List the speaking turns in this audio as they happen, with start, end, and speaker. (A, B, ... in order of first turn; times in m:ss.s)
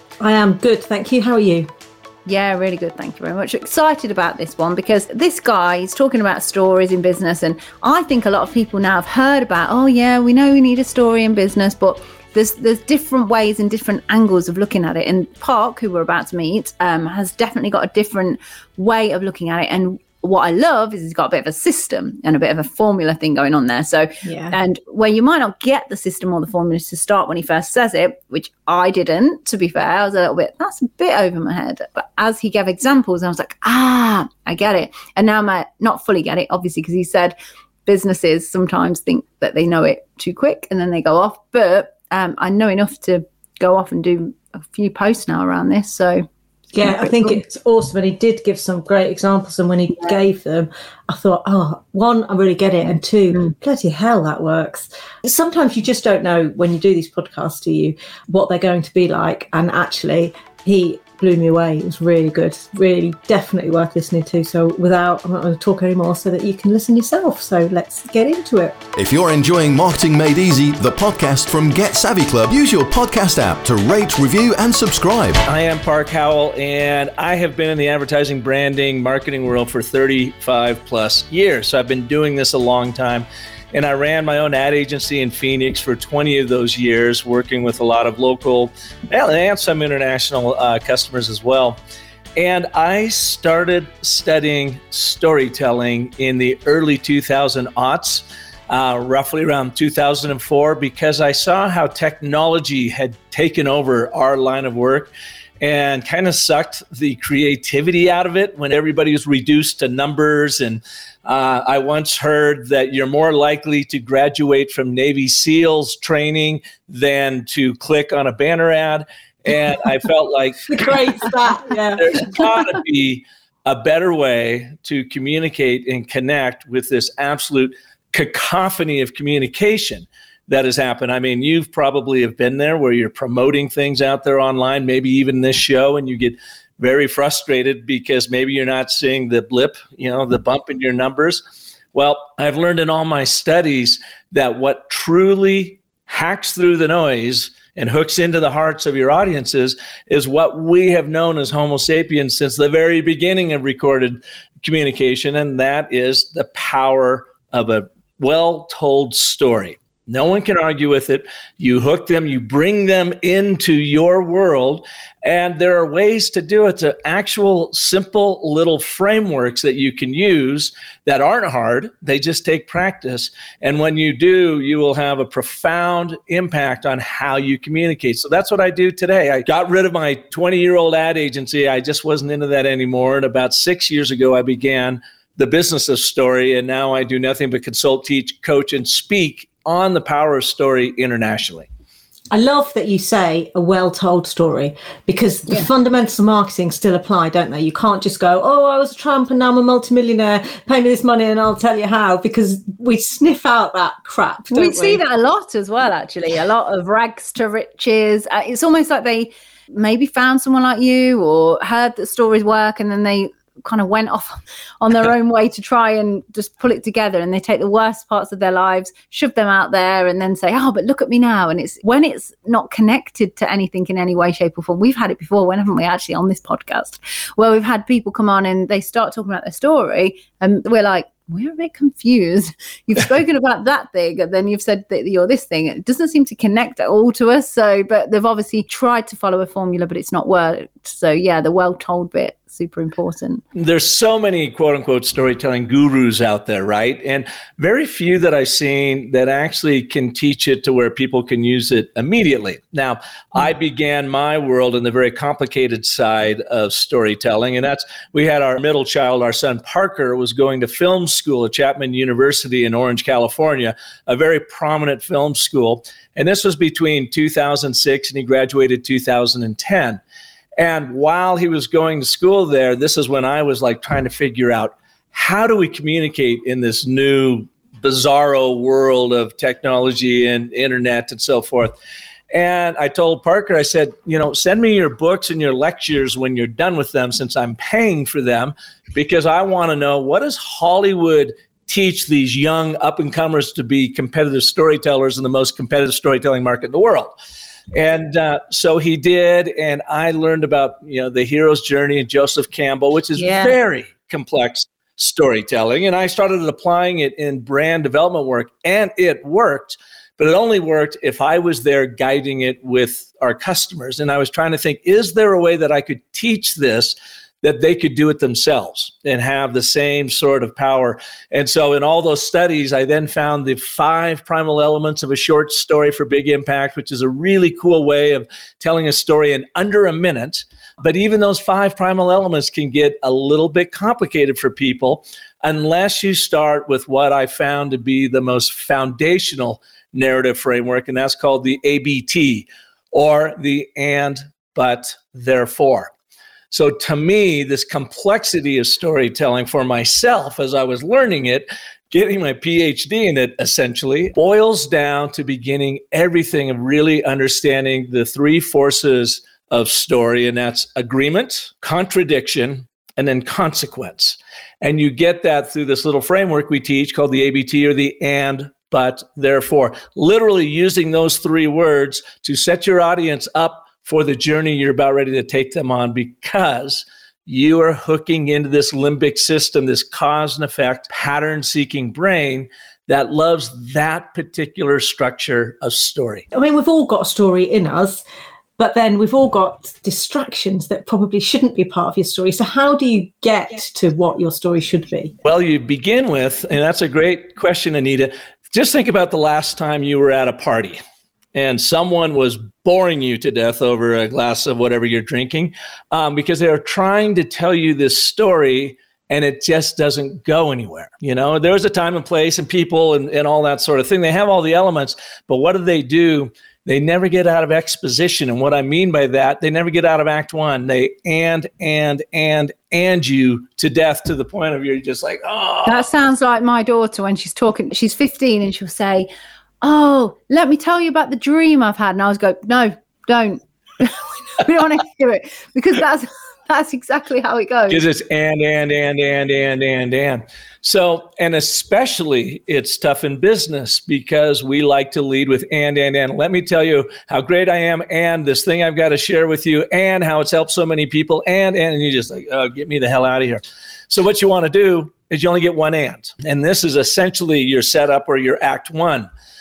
0:00.2-0:01.7 A
0:02.2-0:46.3 B
0:24.2-0:24.6 A
0:46.7-1:08.8 A
0:46.8-0:47.4 B
1:08.9-1:15.4 C
1:15.4-1:31.8 D
1:32.4-2:01.3 D
2:00.7-2:02.2 A
2:02.0-2:21.4 D
2:21.9-3:11.7 D
3:12.3-3:25.0 A
3:24.5-4:03.4 B
4:03.5-4:30.0 D
4:30.6-4:41.7 D
4:42.3-4:57.1 D
4:57.7-5:45.9 D
5:03.2-5:03.5 B
5:46.5-6:26.2 D
6:26.3-6:28.0 A
6:28.6-6:35.1 A
6:35.2-6:40.8 D
6:41.3-7:05.9 D
7:05.6-7:09.1 B
7:09.6-7:17.8 B
7:17.7-7:39.1 D